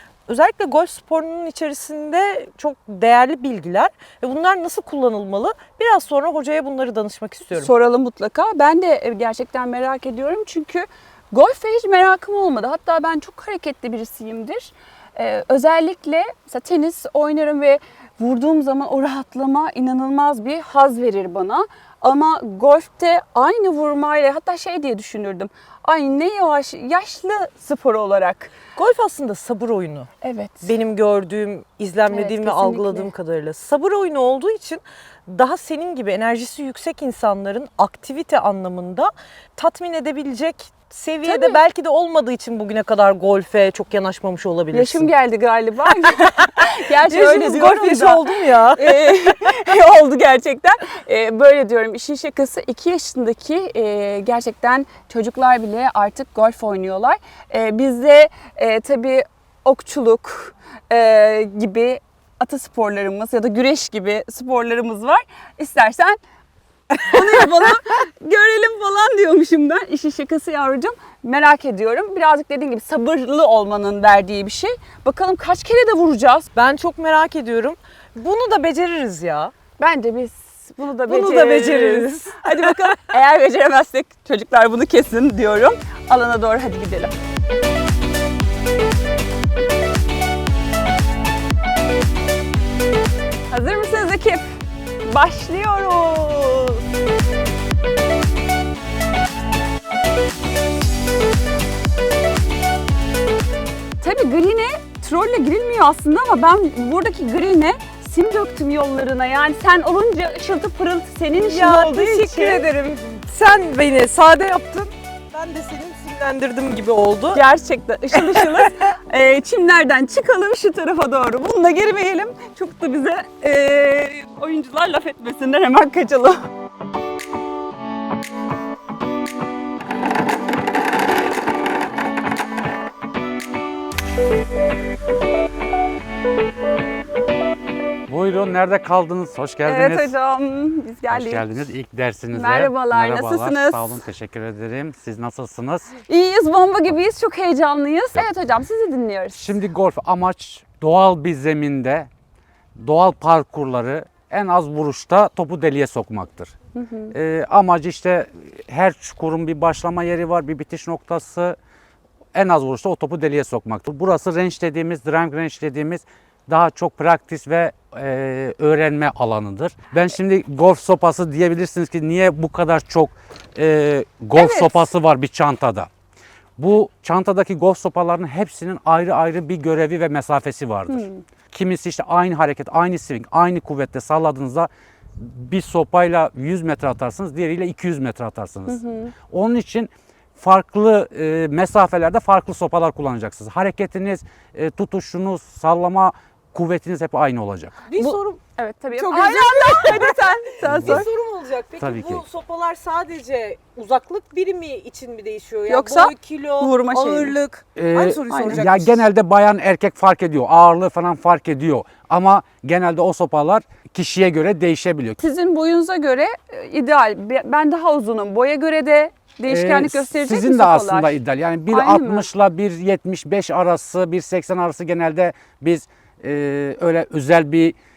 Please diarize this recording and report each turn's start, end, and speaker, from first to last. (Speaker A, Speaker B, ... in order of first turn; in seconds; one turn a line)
Speaker A: 0.3-7.7
Speaker B: 7.5-28.5
Speaker A: 28.8-30.1
Speaker B: 30.2-30.7
Speaker A: 30.6-45.1
Speaker B: 32.1-33.1
Speaker B: 41.3-41.6
Speaker B: 44.7-66.2
Speaker A: 46.0-49.5
Speaker B: 67.0-76.5
Speaker A: 76.5-79.5
Speaker B: 79.8-87.1
Speaker A: 81.1-82.9
Speaker B: 93.5-94.4
Speaker B: 95.0-96.8
Speaker B: 104.0-112.6
Speaker A: 111.5-117.4
Speaker B: 117.3-126.4
Speaker A: 118.2-118.6
Speaker C: 138.1-140.1
Speaker B: 139.7-141.5
Speaker C: 141.1-145.9
Speaker B: 142.3-144.0
Speaker B: 146.1-149.5
Speaker C: 149.3-152.1
Speaker C: 152.8-156.6
Speaker B: 156.8-157.1
Speaker C: 157.1-161.6
Speaker C: 162.3-175.9
Speaker B: 174.3-174.9
Speaker C: 176.6-197.8
Speaker B: 180.9-181.2
Speaker B: 188.7-189.1
Speaker A: 197.9-198.4
Speaker B: 198.0-201.1
Speaker A: 198.9-209.0
Speaker C: 200.6-201.1
Speaker C: 201.8-202.2
Speaker B: 205.7-207.4
Speaker C: 207.8-215.2
Speaker B: 208.3-208.7
Speaker B: 215.2-221.2
Speaker C: 219.5-227.8
Speaker B: 221.7-222.3